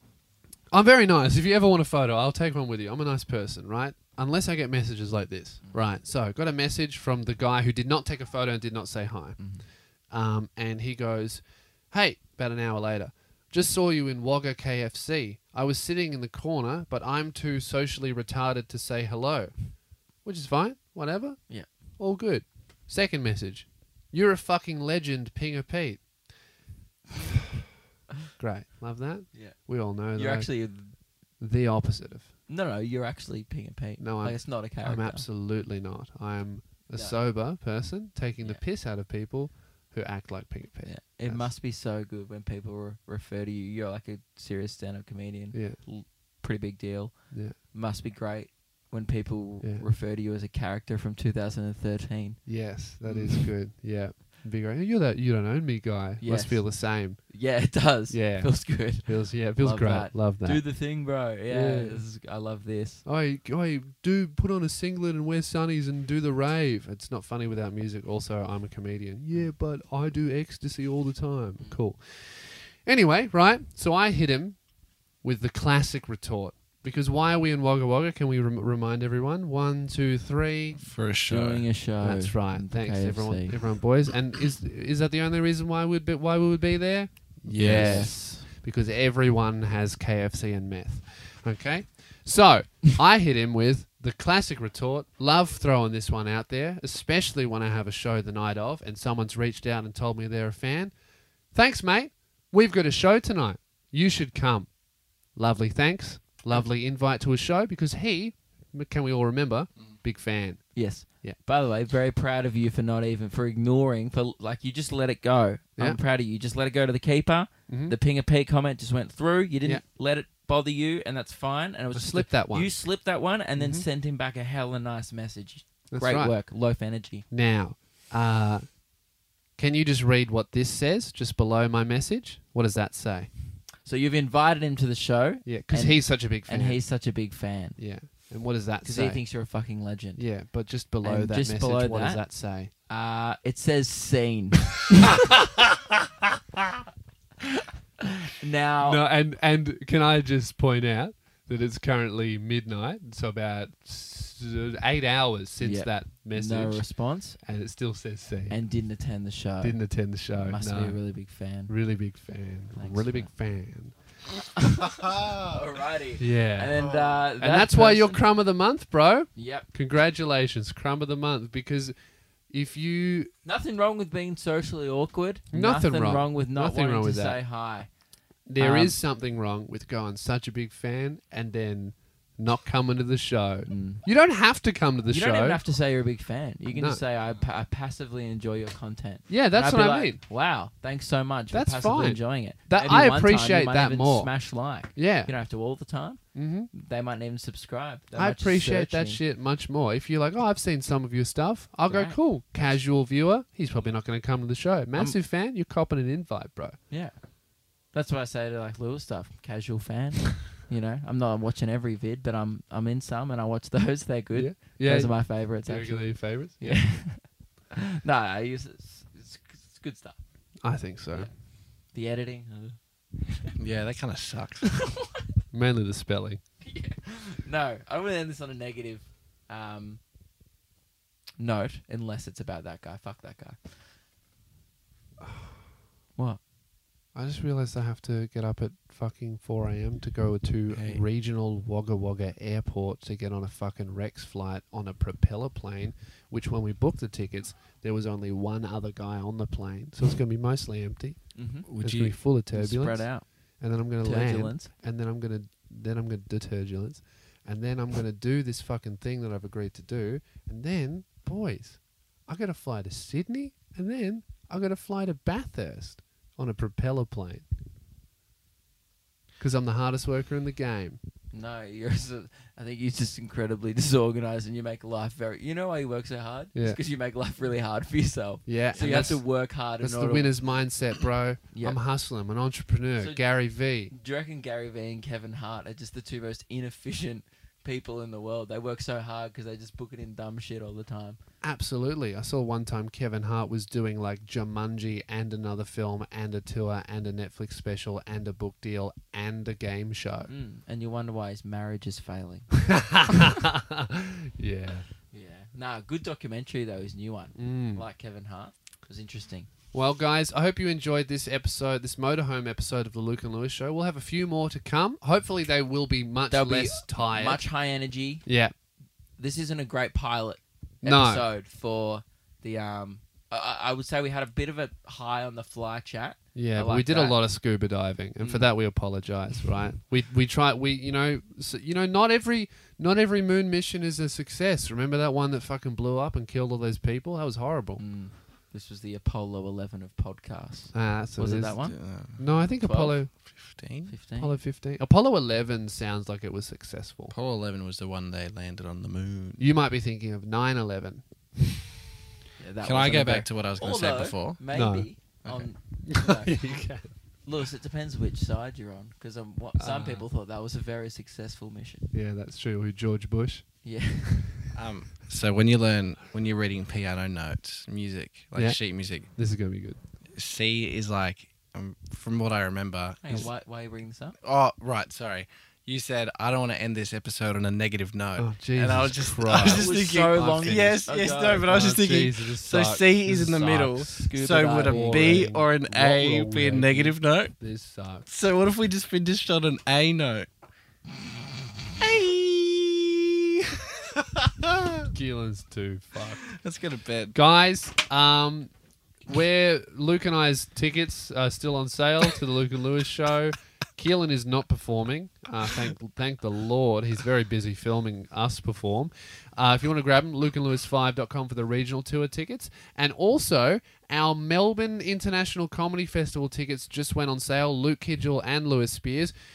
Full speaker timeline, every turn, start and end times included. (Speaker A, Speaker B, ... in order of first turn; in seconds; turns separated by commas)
Speaker A: 0.7-9.5, Speaker B: 9.4-9.6, Speaker A: 10.1-26.0, Speaker A: 28.4-30.5, Speaker B: 29.3-30.9, Speaker A: 31.4-32.3, Speaker B: 32.5-35.2, Speaker A: 34.0-41.5, Speaker B: 36.9-37.2, Speaker B: 40.9-52.5, Speaker A: 45.5-45.8, Speaker A: 52.5-57.2, Speaker B: 53.0-53.5, Speaker B: 56.2-63.0, Speaker A: 58.1-60.7, Speaker A: 61.5-62.0, Speaker A: 63.0-74.6, Speaker A: 75.2-80.8, Speaker C: 80.8-81.7, Speaker B: 81.3-83.7, Speaker A: 82.0-100.9, Speaker C: 87.5-88.2, Speaker B: 87.6-88.5, Speaker A: 101.5-104.8, Speaker A: 105.3-110.7, Speaker B: 110.7-127.2, Speaker A: 117.7-117.9, Speaker A: 121.9-122.7, Speaker A: 123.5-123.8, Speaker A: 125.9-126.3, Speaker A: 127.3-128.8, Speaker A: 129.6-133.3, Speaker B: 133.8-137.8, Speaker A: 135.4-136.8, Speaker A: 137.8-139.2, Speaker B: 138.8-140.3, Speaker A: 140.2-142.7, Speaker B: 141.0-142.2, Speaker B: 142.9-145.2, Speaker A: 144.9-145.8, Speaker B: 147.4-149.0, Speaker A: 148.8-156.8, Speaker B: 155.6-157.4, Speaker A: 157.4-158.6, Speaker B: 158.5-161.7, Speaker A: 159.6-161.1, Speaker A: 161.7-163.9, Speaker B: 162.7-163.3, Speaker B: 164.6-168.2, Speaker C: 165.0-165.5, Speaker A: 166.2-166.7, Speaker C: 166.7-167.2, Speaker A: 167.4-171.9, Speaker B: 169.3-169.7, Speaker A: 172.5-173.3, Speaker B: 173.4-177.9, Speaker A: 175.5-177.4, Speaker A: 178.5-185.6, Speaker B: 178.6-178.9, Speaker B: 183.7-184.1, Speaker B: 185.1-199.2, Speaker A: 186.7-187.0, Speaker A: 189.3-190.2, Speaker A: 191.5-194.3, Speaker A: 194.9-195.3, Speaker A: 196.3-196.7, Speaker A: 198.1-206.8, Speaker B: 201.9-202.7, Speaker B: 206.9-207.2, Speaker B: 207.9-220.2, Speaker A: 214.3-216.9, Speaker A: 220.6-221.3, Speaker B: 221.1-223.5, Speaker C: 223.6-224.7, Speaker B: 224.6-225.3, Speaker A: 225.5-226.4, Speaker B: 226.6-230.0, Speaker B: 231.4-233.7, Speaker A: 235.2-235.5, Speaker A: 237.1-267.4, Speaker C: 240.7-241.0, Speaker B: 251.3-251.7, Speaker C: 251.7-252.2, Speaker B: 252.5-253.2, Speaker B: 254.0-254.7, Speaker A: 269.4-271.0, Speaker B: 271.3-280.3, Speaker A: 278.4-283.9, Speaker C: 278.7-279.0, Speaker B: 281.5-281.8, Speaker B: 283.9-291.2, Speaker A: 291.4-300.3, Speaker B: 300.3-302.6, Speaker A: 302.6-304.9, Speaker B: 305.1-309.5, Speaker A: 307.4-307.8, Speaker A: 309.7-317.4, Speaker B: 316.3-318.2, Speaker A: 318.2-318.5, Speaker B: 319.2-327.2, Speaker A: 320.8-321.2, Speaker A: 326.4-337.8, Speaker B: 328.2-328.5, Speaker B: 337.8-341.8, Speaker A: 340.7-341.6, Speaker C: 341.6-342.3, Speaker A: 342.1-343.1, Speaker B: 342.6-343.1, Speaker C: 343.2-343.9, Speaker B: 343.9-344.4, Speaker A: 344.1-347.1, Speaker C: 347.1-349.4, Speaker A: 349.4-351.0, Speaker B: 352.4-356.4, Speaker C: 352.6-354.4, Speaker A: 354.5-354.9, Speaker C: 355.2-355.5, Speaker A: 355.8-356.9, Speaker B: 357.2-361.9, Speaker A: 359.6-360.0, Speaker A: 361.9-363.5, Speaker B: 363.6-364.4, Speaker C: 364.5-369.1, Speaker A: 368.3-369.8, Speaker C: 370.1-373.3, Speaker B: 373.0-374.1, Speaker C: 374.2-387.3, Speaker A: 378.2-380.8, Speaker B: 379.4-381.5, Speaker A: 381.4-383.9, Speaker B: 383.7-385.3, Speaker A: 384.6-388.1, Speaker C: 388.1-390.3, Speaker C: 391.8-394.9, Speaker A: 394.9-396.2, Speaker C: 396.3-397.1, Speaker A: 397.1-398.5, Speaker A: 399.1-419.1